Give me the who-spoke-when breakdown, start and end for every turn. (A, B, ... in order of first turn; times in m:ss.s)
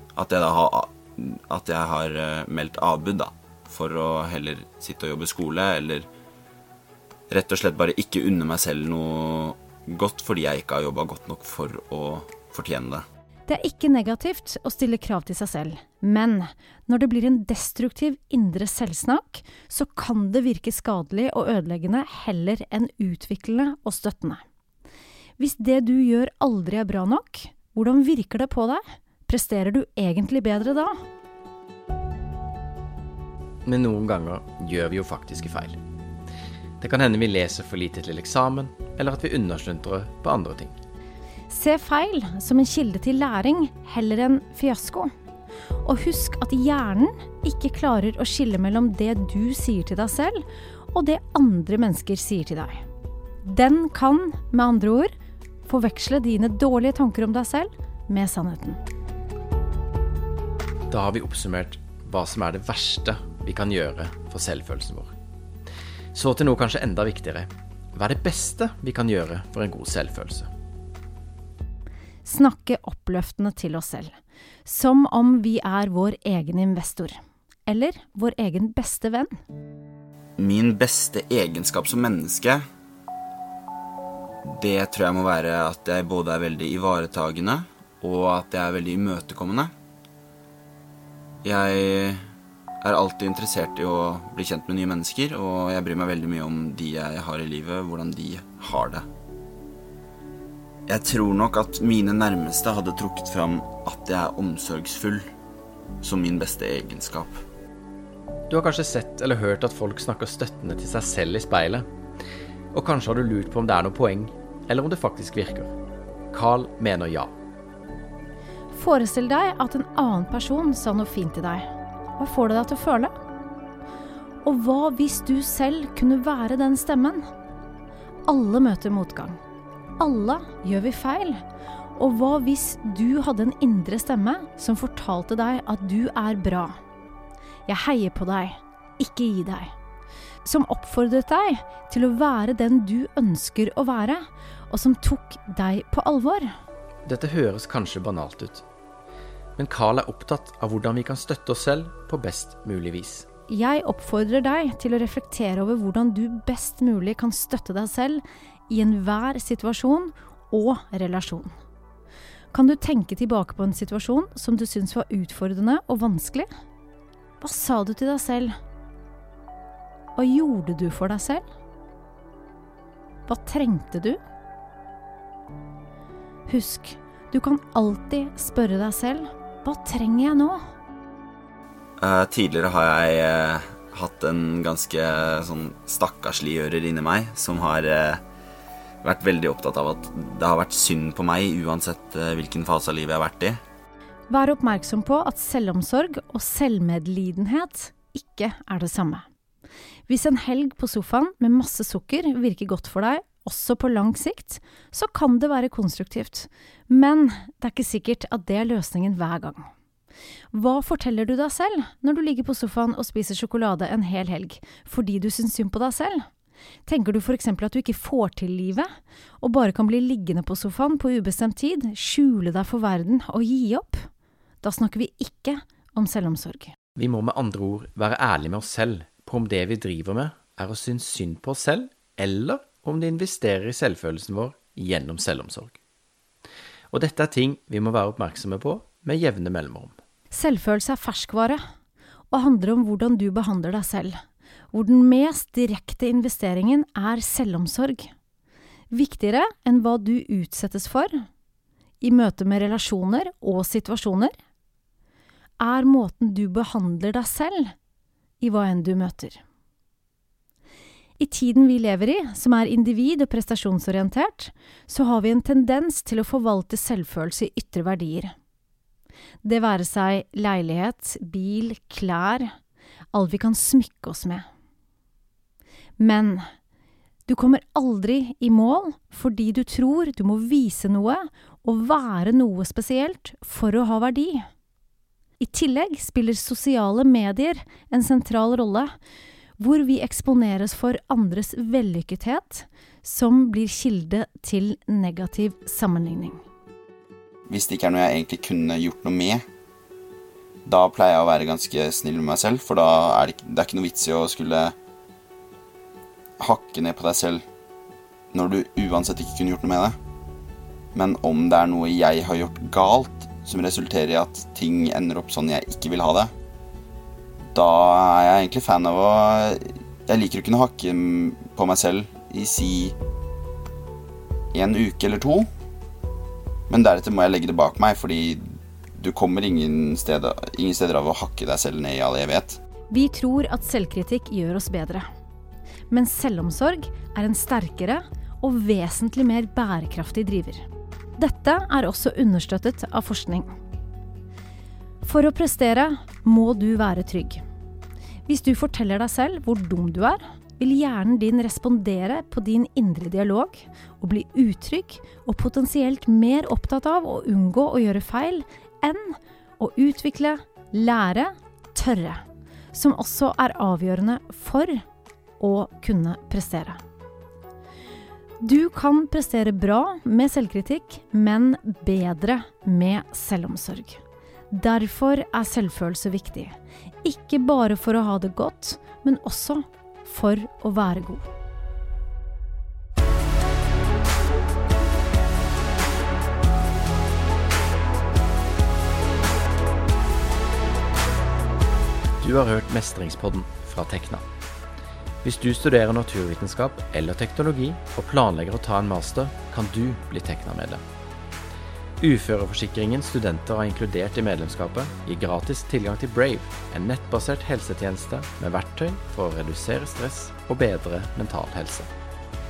0:00.2-0:06.1 A
0:07.3-0:13.0 A
0:13.5-0:24.4 B
0:25.4-0:31.0 B
0:33.6-0:35.8 C
0:36.8-0:40.8 C
0:41.5-0:45.1 B
0:45.8-0:52.8 B
0:53.4-0:55.1 B
0:55.6-0:58.8 B
1:00.9-1:05.1 C
1:06.1-1:10.5 C
1:12.2-1:19.4 B
1:20.4-1:22.6 A
1:24.4-1:29.7 A
1:31.4-1:32.2 A
1:32.8-1:39.1 A
1:40.9-1:45.3 A
1:46.0-1:47.4 A
1:48.5-1:51.8 C
1:52.7-1:55.7 C
1:56.3-1:57.3 C
1:58.7-2:03.1 B
2:04.4-2:07.3 B
2:08.3-2:09.4 B
2:10.0-2:11.4 B
2:12.0-2:16.8 B
2:17.6-2:19.7 B
2:20.4-2:26.5 B
2:27.0-2:28.6 C
2:29.6-2:33.3 C
2:33.5-2:41.5 B
2:42.5-2:46.5 B
2:47.4-2:48.6 B
2:50.2-2:51.4 B
2:53.2-2:54.2 B
2:56.5-3:00.6 B
3:02.0-3:08.2 A
3:09.0-3:13.6 A
3:14.3-3:19.2 B
3:20.1-3:29.7 B
3:30.5-3:36.3 B
3:36.8-3:38.9 B
3:39.4-3:44.1 B
3:44.6-3:46.7 B
3:47.0-3:55.8 C
3:56.9-3:59.9 C
4:00.3-4:01.6 B
4:02.3-4:04.2 B
4:04.7-4:08.1 B
4:08.9-4:11.2 B
4:12.0-4:14.3 B
4:15.6-4:17.7 B
4:18.4-4:19.4 B
4:21.2-4:28.3 B
4:29.4-4:32.5 B
4:33.1-4:34.5 B
4:36.0-4:36.5 B
4:37.3-4:44.5 B
4:45.4-4:48.9 B
4:49.6-4:56.4 B
4:57.5-4:59.4 A
5:00.6-5:04.7 A
5:06.4-5:07.4 A
5:08.3-5:10.0 A
5:10.9-5:16.3 A
5:17.5-5:23.0 A
5:24.5-5:25.5 A
5:26.7-5:28.4 A
5:29.0-5:32.6 A
5:32.9-5:35.1 B
5:35.9-5:43.6 B
5:45.0-5:47.4 B
5:48.2-6:04.8 B
6:05.4-6:06.8 B
6:08.4-6:21.3 B
6:32.2-6:34.2 C
6:35.2-6:40.8 C
6:42.0-6:51.9 C